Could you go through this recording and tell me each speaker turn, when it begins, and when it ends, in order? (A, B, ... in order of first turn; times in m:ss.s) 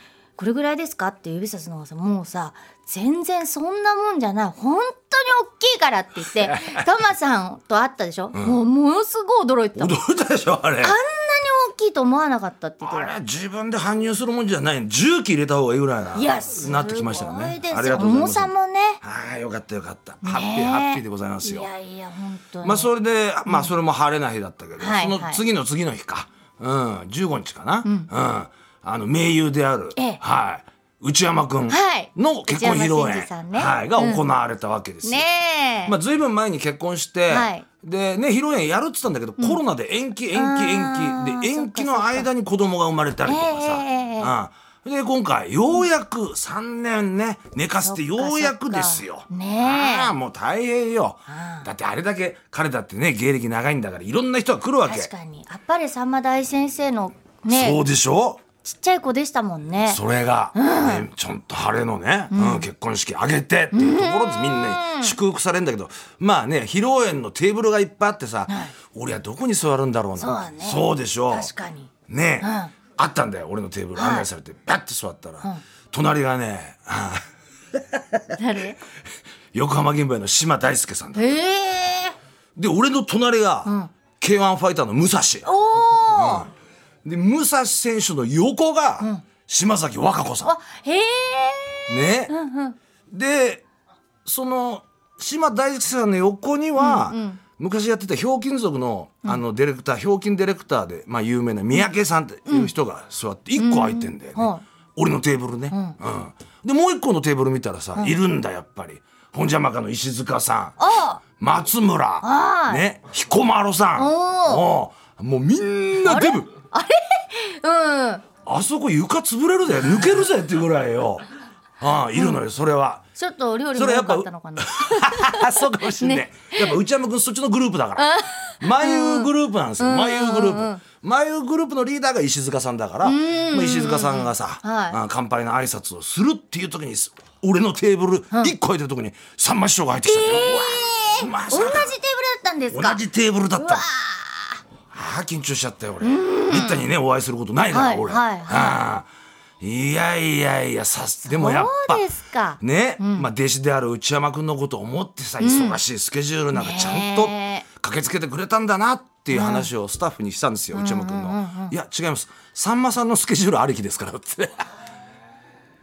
0:00.4-0:09.9 A
0:06.4-0:07.0 B
0:09.7-0:11.0 B
0:10.8-0:13.1 A
0:12.8-0:21.7 B
0:16.1-0:19.0 A
0:20.2-0:22.9 A
0:22.6-0:35.2 B
0:23.4-0:23.7 A
0:24.8-0:25.4 A
0:27.8-0:28.1 A
0:31.7-0:34.2 A
0:35.0-0:36.0 A
0:35.8-0:55.1 B
0:37.3-0:37.6 A
0:40.3-0:42.3 A
0:43.2-0:44.3 A
0:47.8-0:50.1 A
0:51.3-0:51.7 A
0:54.8-0:57.8 A
0:57.5-0:58.4 B
0:58.6-1:00.0 A
0:59.8-1:11.5 B
1:00.5-1:01.1 A
1:02.3-1:02.7 A
1:03.7-1:05.2 A
1:08.5-1:08.7 A
1:10.2-1:12.7 A
1:12.1-1:17.2 B
1:13.9-1:14.3 A
1:17.9-1:18.2 B
1:18.4-1:18.8 A
1:19.5-1:21.3 B
1:21.1-1:22.2 A
1:22.6-1:25.5 B
1:23.6-1:23.9 A
1:25.4-1:26.5 A
1:26.1-1:26.5 B
1:27.0-1:30.5 B
1:30.4-1:32.8 A
1:31.9-1:32.3 B
1:33.1-1:33.6 B
1:34.2-1:50.8 B
1:36.8-1:37.4 A
1:42.4-1:42.7 A
1:43.6-1:44.6 A
1:45.7-1:46.0 A
1:50.8-1:51.2 A
1:51.4-1:56.5 B
1:52.2-1:52.8 A
1:54.0-1:54.6 A
1:56.0-1:58.2 A
1:58.4-2:01.2 B
2:01.8-2:03.0 B
2:02.2-2:02.4 A
2:03.2-2:06.7 A
2:03.7-2:21.9 B
2:08.0-2:10.8 A
2:13.0-2:15.0 A
2:20.0-2:23.0 A
2:22.7-2:23.8 B
2:23.6-2:24.6 A
2:24.9-2:29.1 B
2:26.0-2:26.8 A
2:27.7-2:28.8 A
2:29.6-2:32.0 B
2:31.2-2:33.3 A
2:32.6-2:44.7 B
2:35.4-2:35.8 A
2:36.5-2:37.6 A
2:39.3-2:39.7 A
2:40.7-2:41.8 A